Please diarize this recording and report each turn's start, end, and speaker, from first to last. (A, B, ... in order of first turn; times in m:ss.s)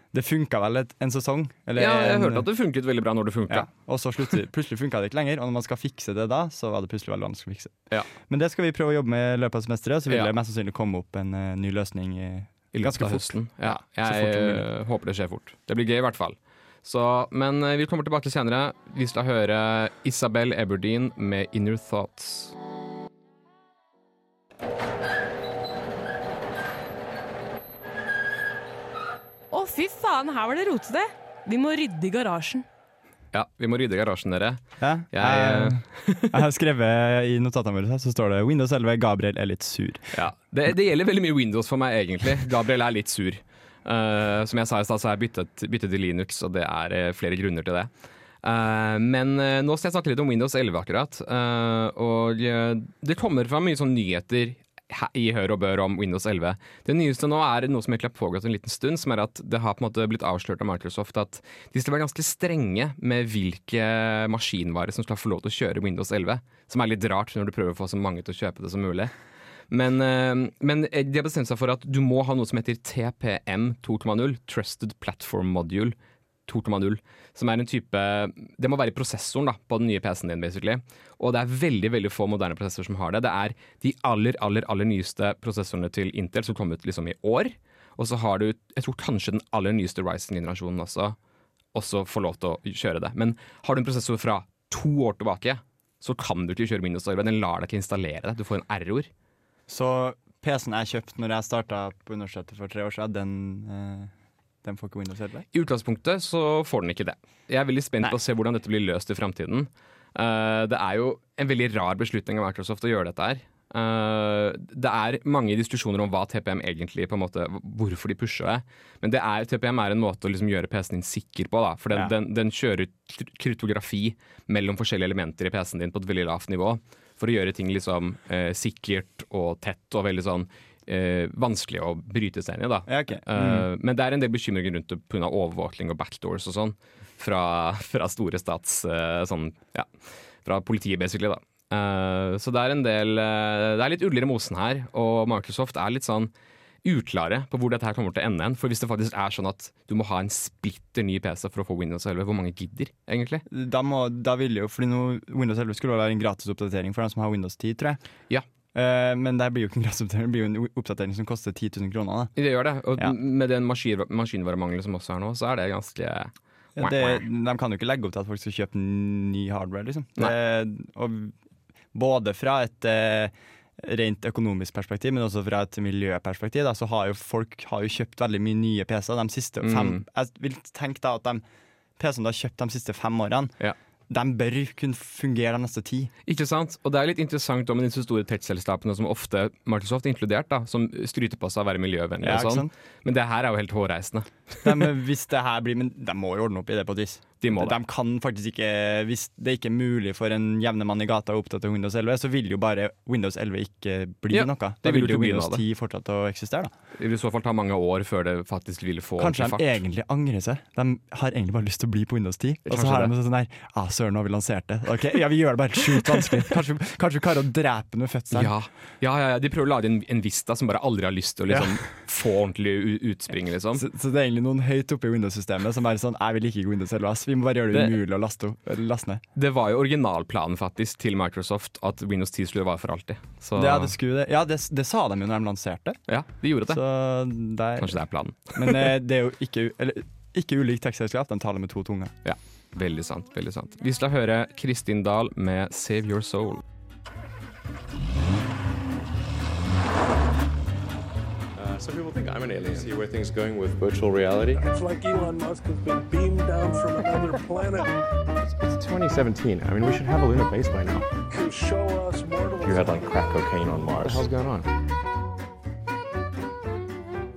0:00.1-0:02.4 A
0:01.7-0:03.7 B
0:03.5-0:14.7 A
0:12.7-0:22.5 B
0:29.5-0:32.6 C
0:33.3-0:36.4 B
0:34.8-0:40.1 A
0:40.1-0:47.9 B
0:48.4-1:09.1 B
1:09.7-1:16.0 B
1:16.5-1:31.2 B
1:31.7-1:39.1 B
1:39.7-1:44.1 A
1:44.6-1:45.4 A
1:45.5-2:26.3 B
2:12.9-2:13.7 A
2:26.8-2:33.4 B
2:33.5-2:38.0 A
2:38.7-2:42.4 A
2:42.4-2:47.2 B
2:46.8-2:51.3 A
2:51.9-3:01.4 A
2:59.6-3:00.0 B
3:02.0-3:03.5 A
3:04.1-3:06.1 A
3:06.3-3:14.9 B
3:12.2-3:12.7 A
3:14.6-3:26.7 A
3:17.4-3:17.8 B
3:24.3-3:25.6 B
3:27.0-3:29.8 B
3:29.2-3:38.5 A
3:32.6-3:33.1 B
3:38.3-3:43.8 B
3:41.5-3:41.8 A
3:43.7-3:49.2 A
3:49.4-3:53.9 B
3:53.5-3:56.0 A
3:56.1-3:56.8 B
3:56.7-4:02.1 A
3:57.8-3:58.9 B
4:02.2-4:06.6 B
4:11.5-4:14.6 D
4:14.5-4:18.0 E
4:18.6-4:21.0 D
4:21.3-4:23.3 E
4:22.6-4:24.7 D